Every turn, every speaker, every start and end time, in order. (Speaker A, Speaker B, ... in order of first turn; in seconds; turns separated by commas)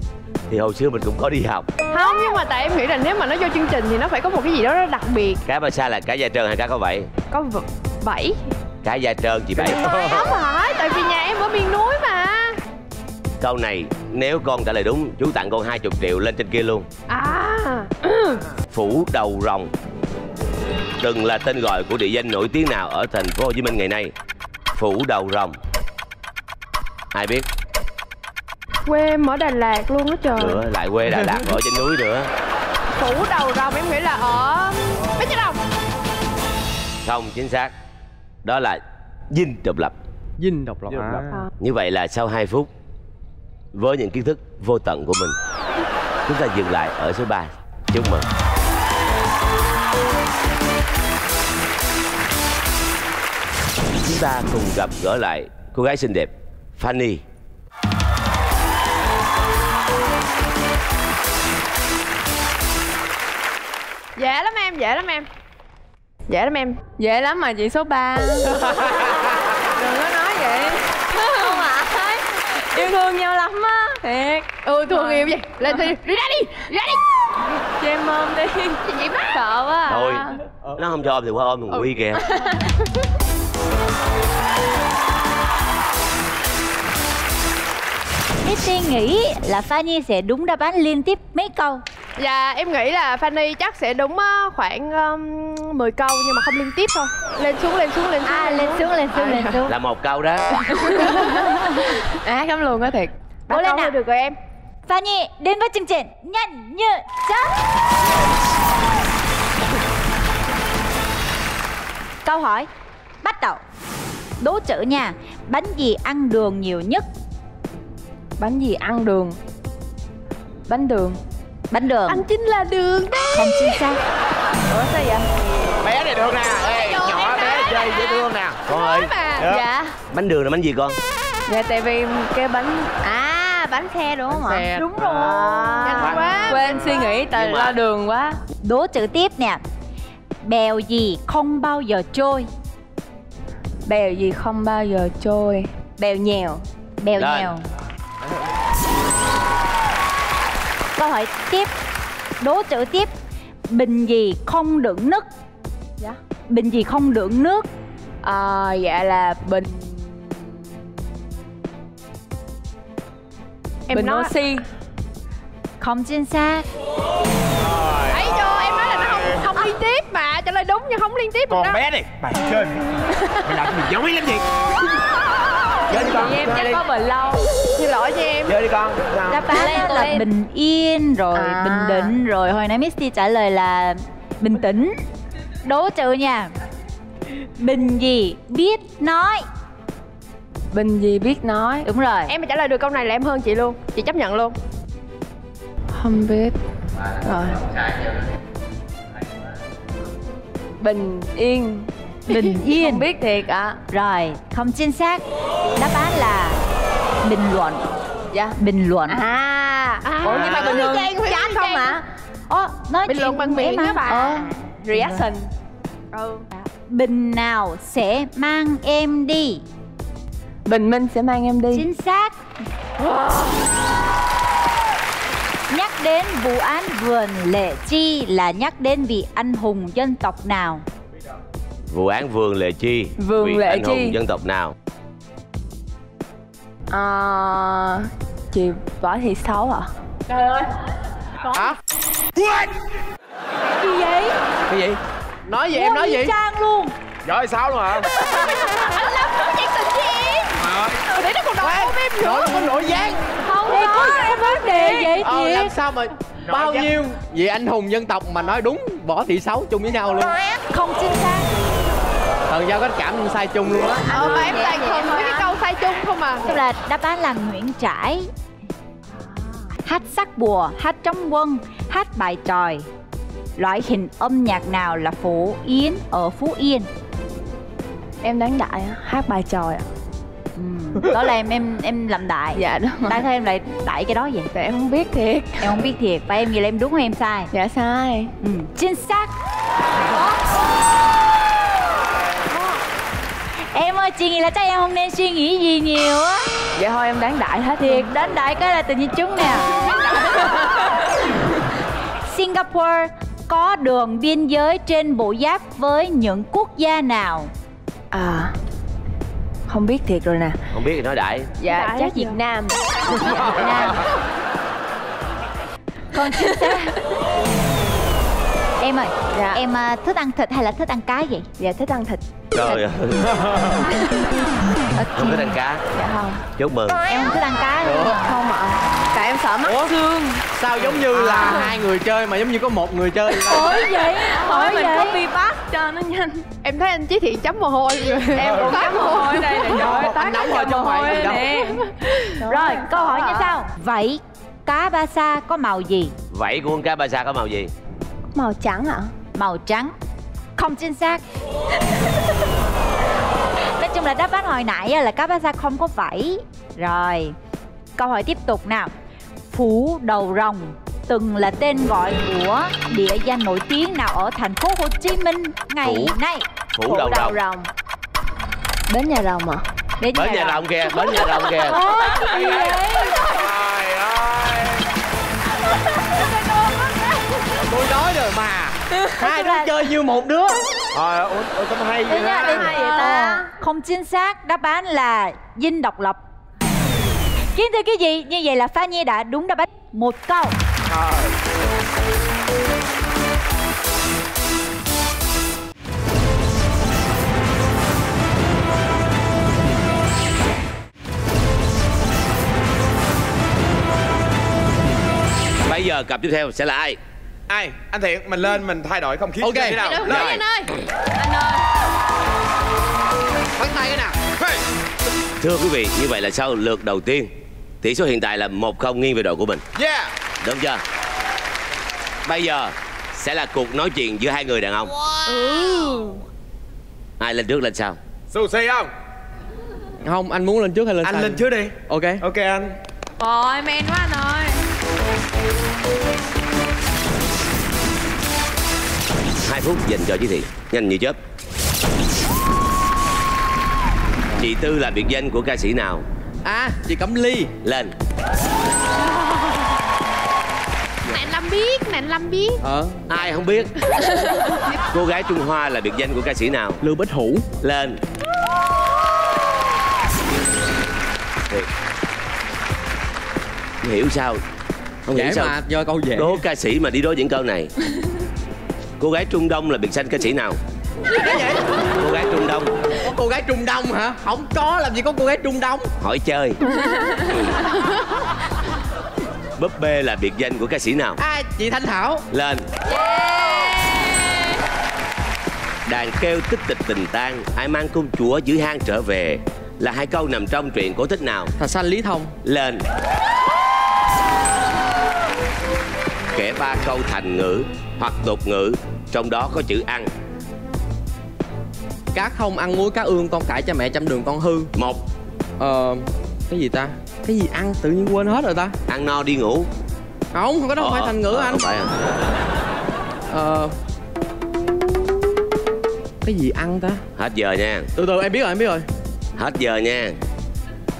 Speaker A: 0.5-1.7, Speaker B: 1.9-5.4, Speaker A: 5.5-7.1, Speaker B: 7.3-8.4, Speaker A: 8.8-9.8, Speaker B: 9.6-12.6, Speaker C: 9.8-10.3, Speaker A: 13.4-16.9, Speaker B: 17.1-18.4, Speaker A: 18.7-19.7, Speaker A: 21.0-24.1, Speaker A: 24.8-25.6, Speaker A: 27.1-27.5, Speaker B: 28.9-30.6, Speaker A: 30.4-32.3, Speaker B: 32.9-35.6, Speaker A: 37.0-37.7, Speaker A: 38.4-40.0, Speaker D: 40.4-41.4, Speaker C: 40.9-41.2, Speaker A: 41.6-42.7, Speaker A: 43.7-45.4, Speaker A: 46.2-48.3, Speaker A: 54.0-57.2, Speaker B: 64.2-65.2, Speaker B: 66.3-66.8, Speaker E: 67.0-68.8, Speaker B: 68.6-69.2, Speaker B: 69.8-71.7, Speaker E: 71.2-76.6, Speaker B: 74.6-76.9, Speaker E: 77.8-80.3, Speaker B: 78.8-80.0, Speaker A: 79.9-82.2, Speaker B: 81.8-82.7, Speaker F: 88.4-91.8, Speaker B: 92.2-99.5, Speaker F: 98.2-99.7, Speaker A: 99.7-100.6, Speaker B: 100.9-101.3, Speaker F: 101.2-101.5, Speaker E: 102.2-103.1, Speaker F: 103.5-104.0, Speaker B: 103.5-104.3, Speaker F: 104.9-107.5, Speaker F: 112.2-112.7, Speaker F: 113.2-113.6, Speaker F: 114.4-117.0, Speaker E: 118.4-119.4, Speaker E: 120.7-121.2, Speaker F: 121.7-122.3, Speaker B: 122.1-123.4, Speaker F: 123.3-124.0, Speaker E: 124.7-125.2, Speaker C: 125.8-128.6, Speaker B: 126.8-129.6, Speaker A: 128.7-129.1, Speaker E: 129.4-129.9, Speaker A: 130.1-131.0, Speaker E: 131.5-134.8, Speaker D: 134.3-134.9, Speaker F: 134.8-136.2, Speaker C: 134.9-136.7, Speaker E: 135.5-138.4, Speaker B: 135.8-137.2, Speaker A: 137.3-137.8, Speaker F: 138.6-139.6, Speaker F: 140.4-142.5, Speaker E: 143.8-146.6, Speaker F: 147.0-147.6, Speaker A: 147.2-147.5, Speaker F: 151.0-151.7, Speaker F: 152.4-153.1, Speaker F: 153.7-155.3, Speaker F: 156.5-157.7, Speaker E: 158.2-160.7, Speaker B: 163.9-164.3, Speaker E: 163.9-164.6, Speaker F: 165.8-166.7, Speaker C: 167.6-169.5, Speaker B: 168.1-171.8, Speaker C: 171.5-172.8, Speaker C: 173.4-174.4, Speaker C: 175.9-176.8, Speaker E: 175.9-177.6, Speaker B: 177.8-178.6, Speaker C: 178.4-179.5, Speaker F: 179.3-185.0, Speaker E: 179.5-180.3, Speaker E: 181.3-182.1, Speaker F: 185.6-186.5, Speaker F: 187.6-189.4, Speaker E: 190.7-191.9, Speaker F: 191.8-192.3, Speaker B: 192.3-194.6, Speaker E: 195.9-196.6, Speaker E: 197.2-197.6, Speaker E: 200.8-203.8, Speaker F: 202.3-203.1, Speaker F: 203.9-205.2, Speaker F: 205.8-206.6, Speaker F: 207.2-207.8, Speaker E: 208.3-212.0, Speaker F: 208.6-209.2, Speaker B: 210.0-212.0, Speaker A: 210.2-210.8, Speaker F: 212.5-215.2, Speaker B: 213.1-214.4, Speaker E: 214.1-215.5, Speaker B: 216.1-216.4, Speaker F: 216.6-219.6, Speaker E: 220.7-221.8, Speaker F: 221.7-222.4, Speaker E: 223.0-223.4, Speaker F: 225.7-230.8, Speaker A: 231.9-234.8, Speaker E: 233.2-234.2, Speaker E: 236.9-239.9, Speaker C: 242.3-242.7, Speaker F: 243.8-244.3, Speaker D: 244.7-246.3, Speaker F: 245.7-246.9, Speaker C: 247.2-248.1, Speaker B: 248.1-250.6, Speaker C: 250.6-251.1, Speaker B: 251.1-255.1, Speaker D: 251.6-253.2, Speaker F: 253.5-255.8, Speaker E: 253.8-254.2, Speaker D: 255.2-260.4, Speaker C: 256.5-256.9, Speaker F: 260.7-261.5, Speaker D: 262.5-264.5, Speaker B: 264.1-266.5, Speaker E: 264.1-265.6, Speaker F: 266.4-268.3, Speaker E: 269.1-269.7, Speaker F: 269.9-272.9, Speaker F: 273.6-276.9, Speaker E: 278.2-279.9, Speaker F: 280.6-284.5, Speaker E: 282.5-283.2, Speaker E: 284.5-285.8, Speaker F: 285.6-287.5, Speaker E: 287.5-288.3, Speaker F: 288.4-289.3, Speaker F: 293.7-296.5, Speaker E: 296.8-298.1, Speaker F: 297.8-300.8, Speaker E: 300.1-300.5, Speaker F: 302.3-307.5, Speaker E: 308.1-308.5, Speaker E: 309.7-310.6, Speaker A: 310.7-311.5, Speaker E: 311.6-313.9, Speaker B: 311.7-312.4, Speaker F: 313.2-314.0, Speaker C: 313.2-313.8, Speaker F: 316.1-317.0, Speaker F: 318.8-321.5, Speaker E: 319.3-319.6, Speaker E: 321.6-322.9, Speaker A: 322.5-323.3, Speaker C: 323.2-323.8, Speaker E: 324.9-326.4, Speaker A: 325.1-325.8, Speaker A: 326.5-327.0, Speaker F: 327.1-328.3, Speaker D: 327.8-328.2, Speaker E: 328.1-330.4, Speaker D: 329.6-329.9, Speaker D: 330.5-333.8, Speaker E: 331.1-331.7, Speaker F: 333.5-335.2, Speaker E: 333.8-336.4, Speaker B: 336.5-341.9, Speaker E: 338.3-343.5, Speaker C: 338.4-338.8, Speaker D: 339.8-341.4, Speaker F: 342.4-346.1, Speaker A: 346.3-347.7, Speaker E: 348.3-349.1, Speaker F: 349.3-349.9, Speaker F: 350.6-351.2, Speaker F: 353.8-357.3, Speaker F: 358.0-358.9, Speaker F: 359.5-366.4, Speaker D: 365.8-366.1, Speaker A: 366.8-367.4, Speaker E: 366.8-367.7, Speaker E: 368.9-369.6, Speaker F: 370.0-373.4, Speaker A: 370.1-371.8, Speaker C: 372.2-374.8, Speaker F: 376.2-376.7, Speaker D: 377.6-380.6, Speaker F: 379.2-379.8, Speaker C: 380.9-382.8, Speaker F: 382.1-386.2, Speaker E: 382.2-383.5, Speaker F: 387.5-390.6, Speaker C: 390.9-391.3, Speaker A: 405.6-407.0, Speaker C: 407.5-410.4, Speaker D: 409.4-409.8, Speaker B: 409.8-410.6, Speaker A: 410.0-410.4, Speaker B: 411.2-411.6, Speaker D: 413.6-414.1, Speaker C: 414.1-414.6, Speaker A: 415.4-419.6, Speaker C: 419.8-420.1, Speaker A: 420.4-420.8, Speaker A: 422.2-424.9, Speaker B: 425.3-426.1, Speaker A: 427.2-428.0, Speaker C: 428.3-428.9, Speaker D: 430.0-432.2, Speaker C: 431.0-432.7, Speaker B: 433.2-434.5, Speaker A: 439.4-441.2, Speaker A: 444.4-446.0, Speaker D: 446.4-447.5, Speaker A: 447.6-447.9, Speaker B: 451.1-452.6, Speaker D: 452.6-453.0, Speaker A: 453.1-453.8, Speaker A: 454.9-456.8, Speaker D: 456.8-457.4, Speaker A: 457.6-458.0, Speaker A: 463.8-464.4, Speaker A: 465.1-465.6, Speaker D: 465.1-466.4, Speaker A: 466.1-467.7, Speaker A: 469.0-470.6, Speaker D: 471.1-471.7, Speaker A: 472.0-472.7, Speaker D: 473.0-475.9, Speaker A: 476.0-476.6, Speaker A: 479.6-481.2, Speaker D: 481.2-482.2, Speaker A: 482.3-482.7, Speaker E: 482.9-484.0, Speaker A: 485.9-491.5, Speaker D: 491.6-492.4, Speaker A: 492.4-492.9, Speaker A: 496.3-500.1, Speaker D: 502.1-504.7, Speaker A: 504.7-505.0, Speaker D: 505.6-508.7, Speaker A: 508.9-509.7, Speaker D: 510.3-511.6, Speaker A: 510.8-511.9, Speaker D: 513.3-513.7, Speaker D: 516.2-517.0, Speaker A: 517.2-517.9, Speaker D: 518.0-518.9, Speaker A: 519.4-520.2